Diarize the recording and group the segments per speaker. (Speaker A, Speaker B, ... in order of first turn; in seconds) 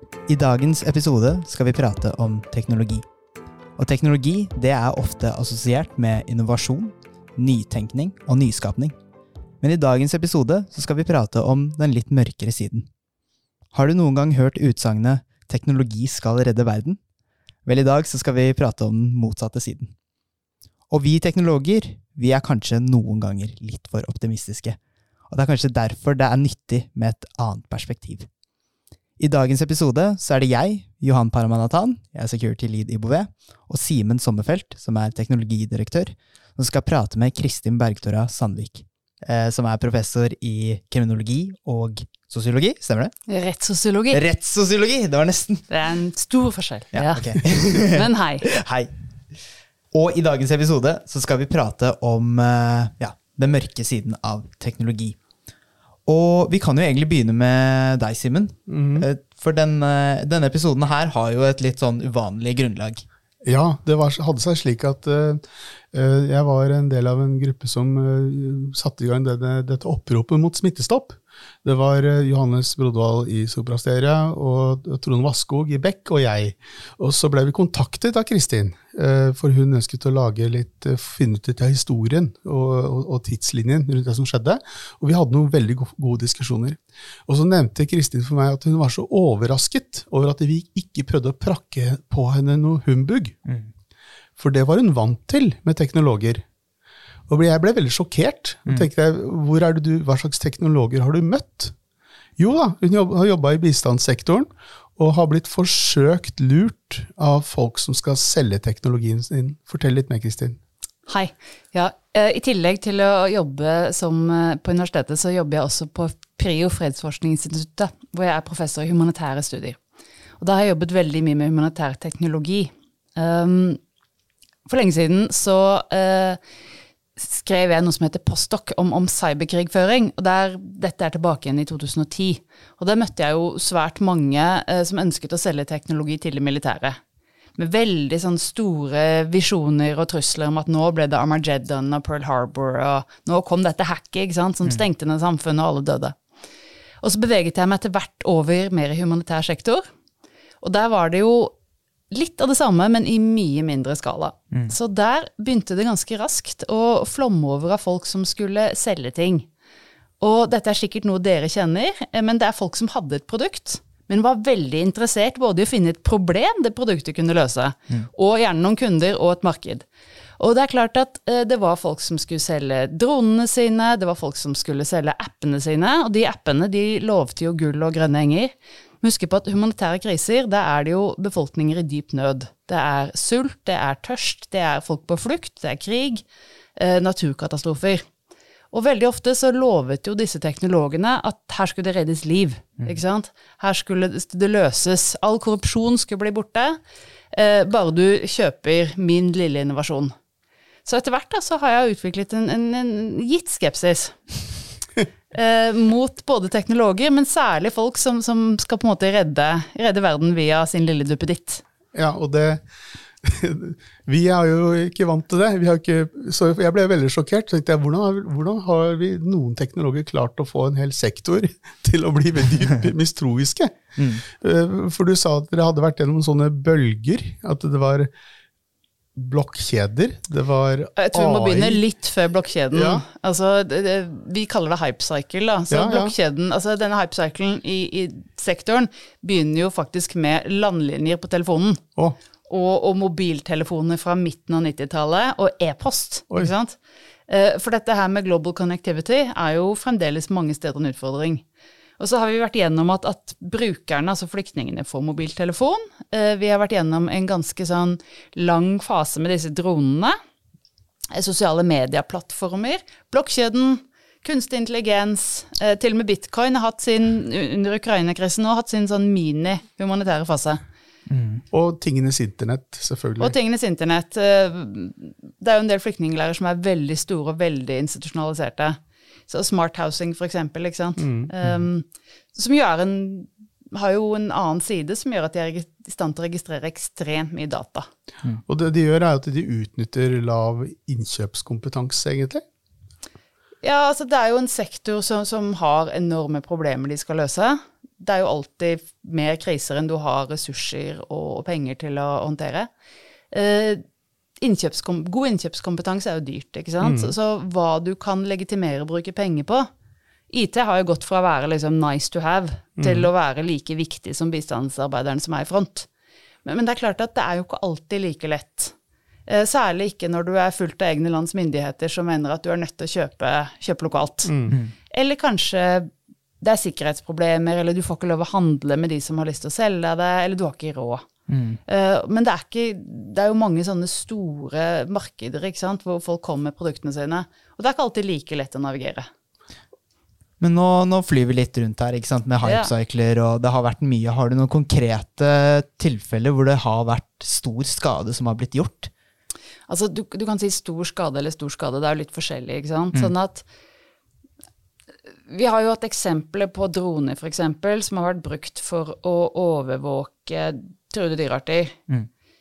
Speaker A: 0.3-3.0, 3.8-8.9, 9.6-12.9, 13.7-17.0, 17.6-19.9, 20.9-24.8, 25.3-28.3, 29.2-43.1, 44.1-45.6, 46.9-49.4, 49.9-55.2, 56.0-63.0, 93.5-93.7, 224.0-224.2, 271.1-271.4, 331.3-331.6, 340.4-348.9
Speaker B: 43.3-44.2, 45.7-48.5, 111.1-119.8, 120.4-123.8, 124.7-126.4, 127.2-137.0, 137.6-146.2, 147.0-149.8, 150.6-151.5, 152.1-159.5, 160.2-169.8, 170.4-188.0, 188.7-196.8, 197.3-200.1, 200.8-204.3, 205.3-211.6, 231.0-241.8, 242.5-246.8, 247.3-251.4, 252.0-260.1, 261.1-270.6, 273.2-287.9, 293.6-302.7, 303.3-303.8, 304.4-309.6, 310.3-315.9, 316.4-318.7, 319.3-324.3, 324.9-325.9, 326.4-331.0, 331.7-339.1, 342.4-342.7, 349.7-353.4, 355.3-361.8
Speaker C: 58.7-59.1, 63.4-93.4, 94.4-96.4, 97.3-101.7, 102.4-110.6, 211.9-212.6, 213.2-228.1, 229.1-231.8, 232.7-233.0, 235.7-236.1, 271.5-273.3, 281.0-281.3, 288.5-292.4, 306.8-307.1, 312.8-313.1, 324.2-324.6